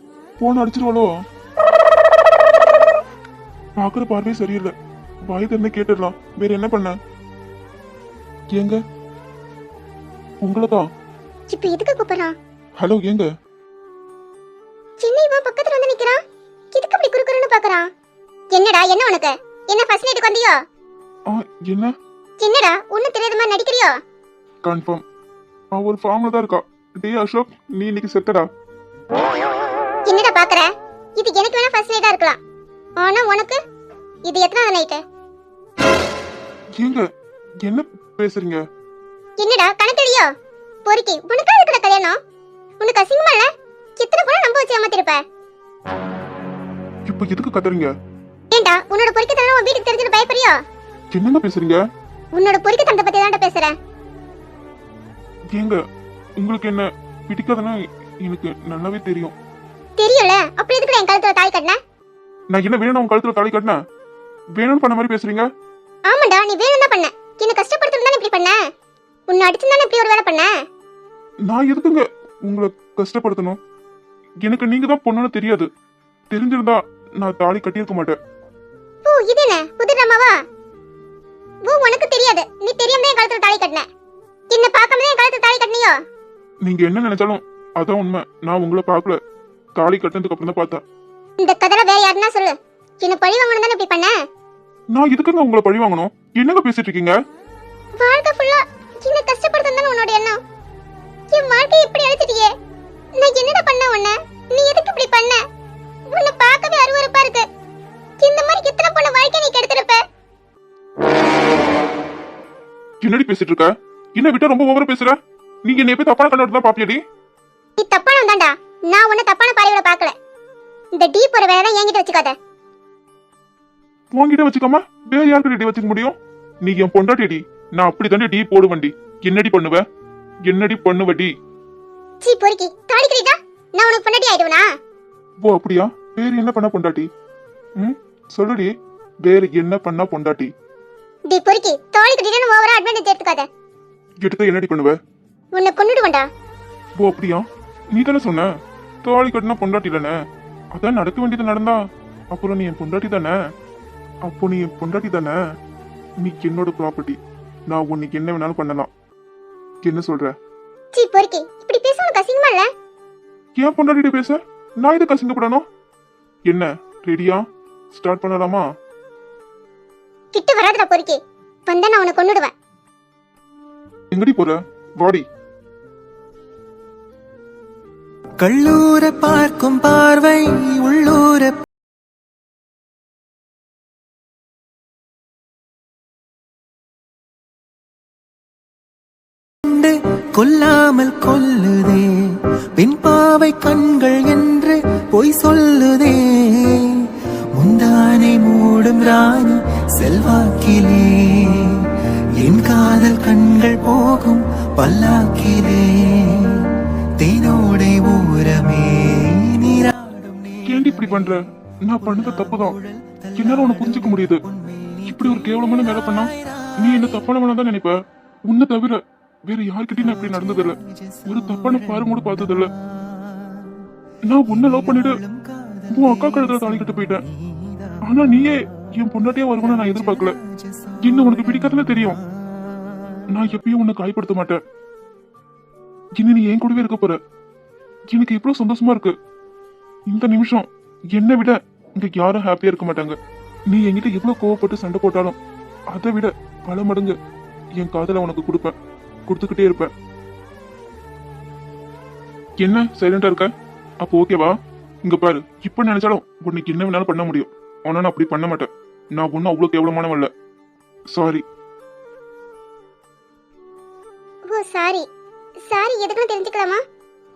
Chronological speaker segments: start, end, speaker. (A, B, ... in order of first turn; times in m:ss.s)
0:00.4-0:01.1 A
0:03.8-0:04.7 A
0:05.3-0:07.0 A
0:08.5-0:08.8 A
0:10.4-0:10.9 A
0:11.5-0:12.3 B
0:12.8-0:13.3 A
0:15.0-0:16.2 B
0:16.7-0:17.9 B
0:18.5-0:20.6 B
0:21.3-0:21.9 A
0:22.4-0:24.0 B
0:24.6-0:25.0 A
0:25.7-0:28.5 A
0:30.1-0:32.4 B
0:33.0-0:33.6 B
0:34.3-0:35.0 B
0:36.8-0:37.1 A
0:37.6-0:38.6 A
0:39.4-0:40.3 B
0:40.9-0:42.2 B
0:42.8-0:45.2 B
0:47.1-0:47.9 A
0:48.5-0:50.6 B
0:51.1-0:51.8 A
0:52.4-0:53.7 B
0:55.5-0:55.8 A
0:56.4-0:59.3 A
1:00.0-1:01.8 B
1:02.5-1:03.8 A
1:04.6-1:05.5 A
1:06.1-1:08.6 B
1:09.3-1:10.5 B
1:11.5-1:13.6 A
1:14.4-1:15.7 A
1:16.3-1:18.2 A
1:19.1-1:20.3 B
1:21.7-1:23.9 B
1:24.5-1:26.0 B
1:26.6-1:29.2 A
1:29.8-1:30.8 A
1:31.4-1:34.1 B
1:34.9-1:37.1 A
1:38.0-1:40.4 B
1:41.3-1:42.5 B
1:43.2-1:45.4 B
1:46.1-1:47.5 B
1:48.2-1:50.0 B
1:53.0-1:57.0 A
1:57.8-2:00.1 B
2:01.0-2:02.4 B
2:04.1-2:09.8 A
2:10.5-2:11.3 A
2:12.2-2:14.6 B
2:15.4-2:17.1 A
2:17.8-2:20.5 A
2:21.3-2:23.5 B
2:24.2-2:25.0 A
2:25.6-2:26.3 B
2:27.0-2:28.5 A
2:29.0-2:30.2 A
2:30.7-2:31.8 A
2:32.3-2:33.3 A
2:34.2-2:35.4 A
2:36.2-2:37.2 A
2:37.7-2:38.9 A
2:39.8-2:40.3 A
2:41.0-2:42.7 B
2:43.6-2:45.6 A
2:46.5-2:48.6 A
2:50.3-2:52.5 B
2:54.1-2:55.2 A
2:58.4-3:01.6 C
3:09.6-3:12.0 C
3:12.8-3:16.2 C
3:17.6-3:21.7 C
3:22.4-3:26.4 C
3:27.2-3:31.4 C
3:30.7-3:32.8 A
3:32.0-3:37.2 C
3:33.4-3:34.4 A
3:35.1-3:38.0 A
3:38.5-3:42.7 A
3:40.0-3:42.7 C
3:44.3-3:45.2 A
3:44.6-3:47.2 C
3:45.9-3:47.2 A
3:48.0-3:50.4 A
3:49.6-3:51.8 C
3:51.0-3:52.2 A
3:53.3-3:54.6 A
3:56.2-3:57.2 A
3:58.1-3:59.1 A
4:00.1-4:03.2 A
4:03.7-4:05.4 A
4:05.9-4:07.2 A
4:07.8-4:08.8 A
4:09.3-4:09.9 A
4:12.6-4:20.3 A
4:21.1-4:21.4 A
4:24.5-4:25.1 B
4:25.7-4:26.8 B